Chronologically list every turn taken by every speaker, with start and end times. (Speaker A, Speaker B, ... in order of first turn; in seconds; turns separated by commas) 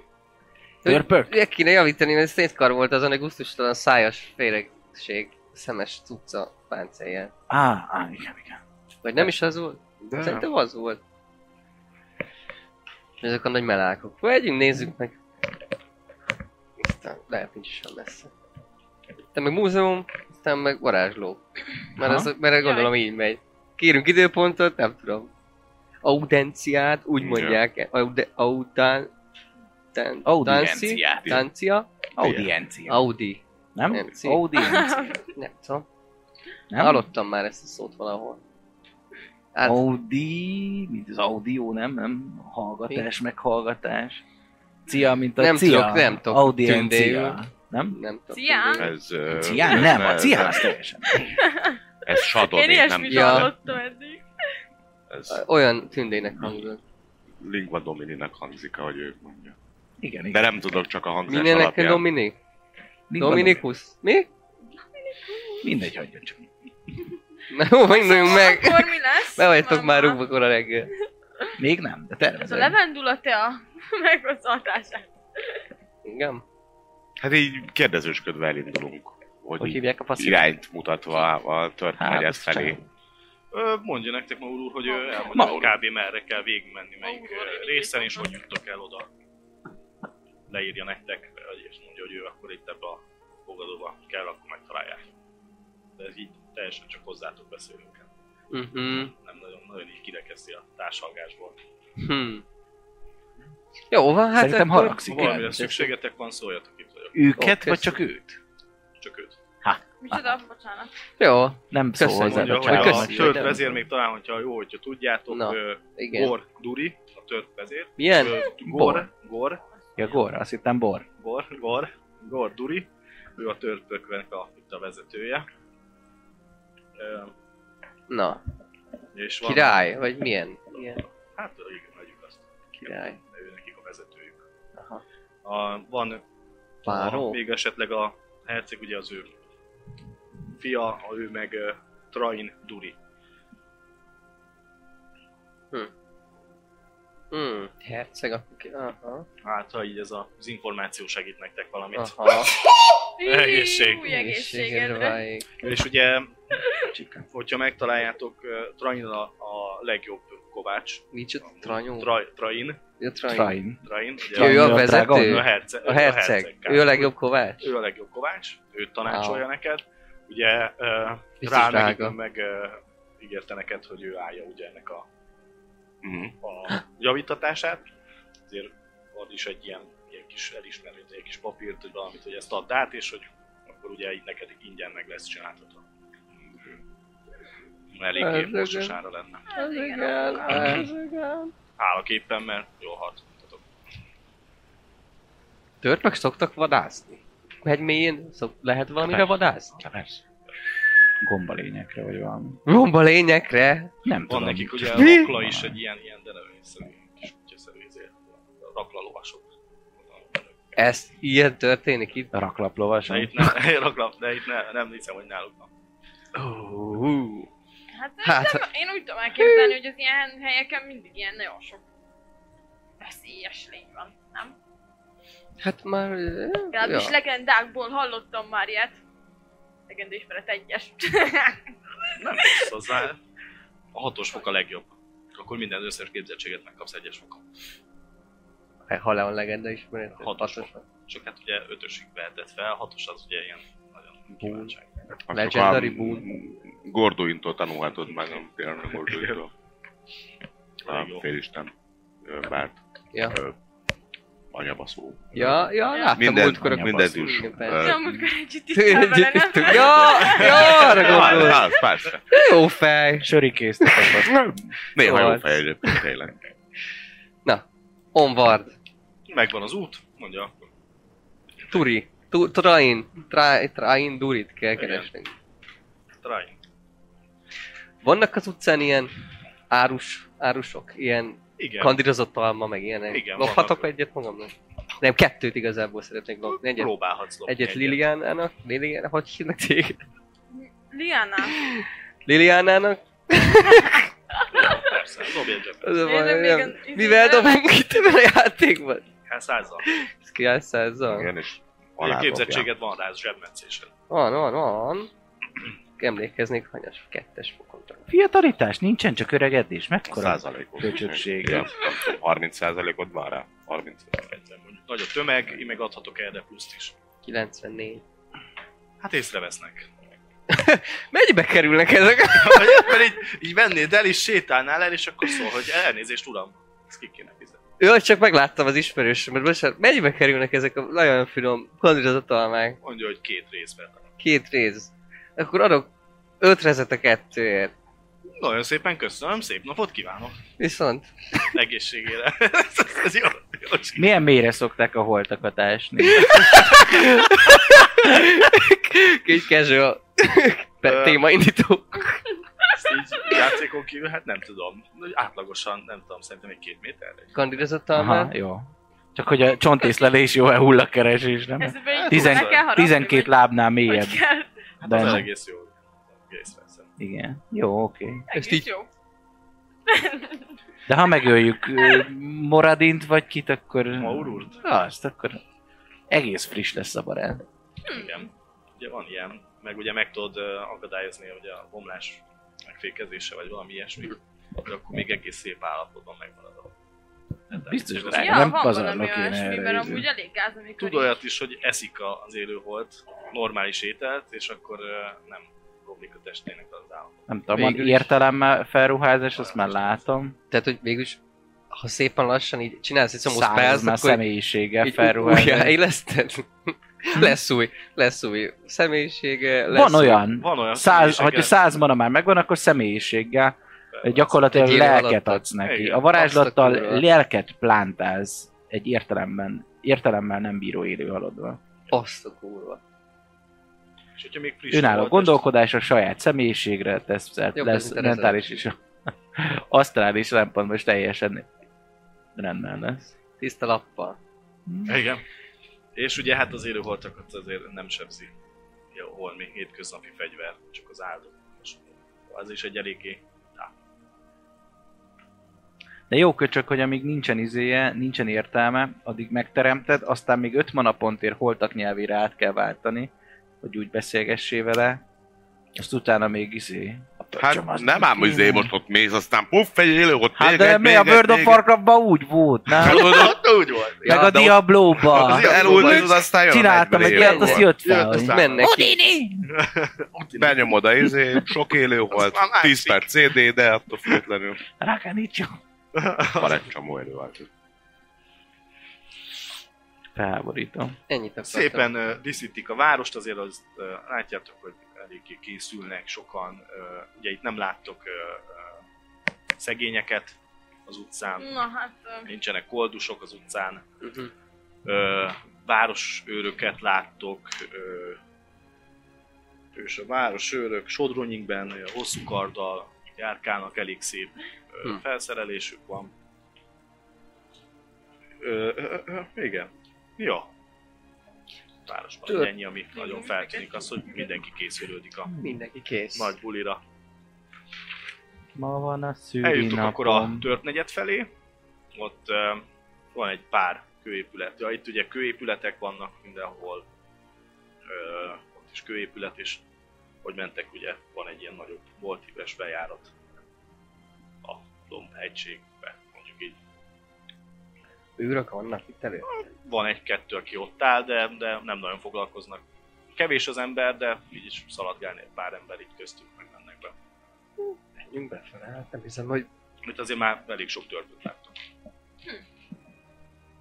Speaker A: 0.8-7.3, Speaker B: 0.8-1.3, Speaker B: 7.5-8.6, Speaker A: 9.0-11.0, Speaker B: 10.2-10.4, Speaker A: 13.2-15.2, Speaker A: 16.8-18.3, Speaker A: 19.3-25.3, Speaker B: 22.0-22.3, Speaker C: 22.6-22.9, Speaker A: 26.0-29.1, Speaker D: 27.2-27.6, Speaker A: 29.9-31.9, Speaker B: 30.2-31.4, Speaker D: 31.1-31.4, Speaker B: 32.2-33.0, Speaker D: 32.2-32.5, Speaker A: 32.9-34.4, Speaker B: 33.7-35.1, Speaker C: 34.5-35.2, Speaker A: 35.3-35.9, Speaker B: 36.7-37.0, Speaker A: 36.8-38.4, Speaker A: 39.5-39.8, Speaker B: 39.6-44.2, Speaker B: 44.9-48.0, Speaker A: 45.4-47.4, Speaker A: 47.9-48.9, Speaker C: 48.3-48.9, Speaker D: 48.8-50.7, Speaker B: 49.3-51.3, Speaker C: 51.2-54.2, Speaker D: 52.0-53.6, Speaker A: 53.1-53.5, Speaker D: 55.1-55.4, Speaker A: 55.3-56.8, Speaker D: 57.4-59.5, Speaker B: 60.0-60.5, Speaker D: 60.3-62.1, Speaker A: 61.3-62.4, Speaker B: 63.1-63.6, Speaker A: 63.2-64.3, Speaker B: 65.6-66.5, Speaker A: 67.5-70.9, Speaker C: 67.8-70.2, Speaker B: 71.6-72.8, Speaker C: 72.4-75.1, Speaker A: 76.0-76.4, Speaker D: 77.2-82.8, Speaker B: 79.6-80.5, Speaker B: 82.0-82.8, Speaker E: 83.5-89.1, Speaker C: 84.9-85.5, Speaker B: 85.3-85.7, Speaker C: 87.0-88.3, Speaker E: 90.5-95.1, Speaker E: 96.0-98.1, Speaker A: 98.5-99.1, Speaker E: 99.1-101.6, Speaker A: 102.0-102.4, Speaker A: 103.9-105.9, Speaker B: 104.4-105.6, Speaker E: 105.0-107.2, Speaker B: 107.1-108.4, Speaker A: 107.4-108.0, Speaker E: 109.0-109.4, Speaker B: 109.6-110.3, Speaker C: 110.0-110.9, Speaker A: 111.2-113.6, Speaker B: 111.7-113.8, Speaker E: 112.2-119.6, Speaker A: 115.3-116.3, Speaker A: 118.0-118.4, Speaker B: 118.6-119.1, Speaker B: 120.0-121.0, Speaker E: 121.2-125.5, Speaker E: 127.0-127.3, Speaker A: 128.1-128.4, Speaker E: 129.1-129.8, Speaker A: 129.4-131.0, Speaker E: 131.2-134.4, Speaker A: 132.8-133.2, Speaker A: 134.8-135.0, Speaker E: 135.4-136.2, Speaker A: 136.8-137.4, Speaker E: 136.8-139.3, Speaker E: 140.6-142.9, Speaker A: 147.3-149.2, Speaker E: 149.4-154.1, Speaker A: 151.9-152.5, Speaker C: 153.2-155.2, Speaker A: 154.1-155.4, Speaker E: 155.6-156.6, Speaker B: 156.9-157.2, Speaker E: 157.3-162.8, Speaker A: 161.1-162.1, Speaker A: 163.0-163.6, Speaker B: 163.3-165.4, Speaker E: 163.8-175.1, Speaker A: 164.3-167.7, Speaker A: 169.1-169.4, Speaker A: 171.4-172.2, Speaker D: 176.0-176.3, Speaker E: 176.4-177.8, Speaker E: 178.5-185.8, Speaker E: 187.9-189.4, Speaker A: 188.2-189.0, Speaker C: 189.5-190.8, Speaker A: 189.5-191.5, Speaker E: 190.5-190.8, Speaker E: 191.8-193.6, Speaker A: 195.8-199.8, Speaker D: 199.8-200.2, Speaker B: 201.2-202.6, Speaker A: 202.7-203.9, Speaker B: 204.0-205.8, Speaker E: 204.3-209.4, Speaker A: 205.0-205.3, Speaker E: 210.1-210.5, Speaker A: 210.8-212.3, Speaker B: 212.3-213.5, Speaker E: 213.1-215.7, Speaker A: 216.3-217.5, Speaker C: 217.9-221.8, Speaker A: 218.2-218.6, Speaker A: 219.4-219.8, Speaker C: 223.0-224.5, Speaker A: 225.6-227.1, Speaker C: 226.7-229.0, Speaker C: 229.9-231.6, Speaker E: 232.2-233.2, Speaker E: 233.9-237.4, Speaker A: 238.9-240.8, Speaker E: 240.2-244.8, Speaker A: 244.4-244.7, Speaker D: 245.3-249.5, Speaker A: 245.3-246.3, Speaker E: 249.1-249.4, Speaker E: 250.8-251.2, Speaker D: 250.9-251.7, Speaker D: 252.2-253.5, Speaker D: 254.5-255.6, Speaker A: 255.3-257.9, Speaker B: 255.4-255.6, Speaker C: 255.9-256.2, Speaker D: 256.2-258.2, Speaker B: 256.4-257.4, Speaker C: 257.8-261.0, Speaker A: 258.7-261.7, Speaker E: 259.9-261.6, Speaker D: 260.9-262.4, Speaker A: 262.3-263.3, Speaker B: 263.2-264.6, Speaker A: 263.8-264.3, Speaker D: 264.3-266.5, Speaker A: 265.0-266.0, Speaker A: 267.4-268.8, Speaker E: 269.3-270.7, Speaker A: 271.7-275.3, Speaker E: 274.8-275.1, Speaker E: 276.2-276.6, Speaker A: 278.0-279.1, Speaker A: 279.7-286.9, Speaker E: 281.6-282.0, Speaker E: 283.1-283.9, Speaker E: 286.7-288.0, Speaker A: 287.5-290.0, Speaker C: 290.5-291.5, Speaker A: 291.6-294.1, Speaker E: 294.5-296.0, Speaker A: 295.8-299.0, Speaker C: 296.0-297.6, Speaker E: 299.3-299.9, Speaker A: 299.9-301.3, Speaker D: 301.1-302.7, Speaker E: 302.0-303.9, Speaker A: 304.1-305.1, Speaker A: 306.0-308.1, Speaker B: 308.1-311.7, Speaker D: 310.1-314.3, Speaker E: 314.3-316.9, Speaker A: 317.2-318.0, Speaker E: 319.0-319.9, Speaker A: 320.5-323.0, Speaker E: 322.3-327.6, Speaker A: 327.8-332.8, Speaker E: 332.8-334.1, Speaker A: 334.2-337.7, Speaker E: 338.4-340.4, Speaker A: 340.6-341.2, Speaker E: 341.4-344.1, Speaker B: 344.0-347.1, Speaker A: 346.1-352.1, Speaker E: 350.8-351.2, Speaker E: 352.8-357.4, Speaker A: 357.3-358.3, Speaker B: 357.9-364.2, Speaker C: 361.6-364.6, Speaker E: 361.9-362.6, Speaker E: 364.8-366.9, Speaker B: 364.8-365.2, Speaker B: 367.0-368.2, Speaker C: 368.3-368.9, Speaker A: 368.3-368.7, Speaker C: 369.9-370.4, Speaker B: 370.9-375.4, Speaker E: 374.0-374.6, Speaker B: 376.1-377.4, Speaker C: 377.9-378.3, Speaker E: 377.9-386.7, Speaker B: 387.5-390.1, Speaker E: 387.5-388.5, Speaker C: 388.1-391.2, Speaker E: 390.8-397.2, Speaker B: 397.3-400.4, Speaker A: 397.5-398.1, Speaker E: 399.4-399.9, Speaker A: 400.5-401.2, Speaker A: 401.7-404.2, Speaker B: 403.2-405.8, Speaker A: 404.8-410.2, Speaker B: 409.7-421.6, Speaker E: 410.4-411.6, Speaker E: 413.9-414.4, Speaker A: 414.5-415.5, Speaker E: 415.6-416.1, Speaker A: 416.1-417.0, Speaker A: 421.9-422.8, Speaker E: 424.2-425.4, Speaker B: 424.7-428.8, Speaker A: 427.5-428.6, Speaker B: 429.4-431.5, Speaker B: 432.4-433.1, Speaker A: 433.4-434.2, Speaker B: 434.7-435.0, Speaker E: 434.9-435.2, Speaker E: 435.9-438.3, Speaker E: 438.9-443.7, Speaker B: 446.1-453.1, Speaker B: 453.6-455.0, Speaker B: 455.8-458.7, Speaker D: 457.4-461.6, Speaker B: 460.4-463.3, Speaker D: 462.7-463.4, Speaker E: 462.8-464.1, Speaker A: 464.0-464.3, Speaker B: 464.0-469.5, Speaker D: 464.1-467.8, Speaker E: 465.0-466.2, Speaker A: 467.1-468.9, Speaker E: 467.9-468.6, Speaker E: 469.5-470.8, Speaker D: 470.4-474.6, Speaker E: 472.1-473.1, Speaker B: 474.8-475.6, Speaker E: 475.9-476.6, Speaker D: 476.3-477.5, Speaker B: 480.1-481.0, Speaker A: 481.1-481.9, Speaker E: 481.4-488.8, Speaker E: 489.6-491.6, Speaker C: 491.4-492.3, Speaker E: 492.3-493.8, Speaker A: 494.0-494.3, Speaker E: 494.9-498.2, Speaker E: 499.7-506.1, Speaker E: 508.4-510.5, Speaker E: 511.9-515.3, Speaker C: 513.0-514.1, Speaker A: 515.4-516.4, Speaker E: 516.1-516.8, Speaker B: 518.5-520.5, Speaker E: 519.4-521.3, Speaker E: 522.0-526.9, Speaker E: 527.9-529.6, Speaker E: 530.2-533.1, Speaker E: 534.4-536.6, Speaker A: 538.2-539.4, Speaker E: 539.2-542.6, Speaker E: 543.1-546.9, Speaker A: 547.6-549.5, Speaker E: 549.9-551.5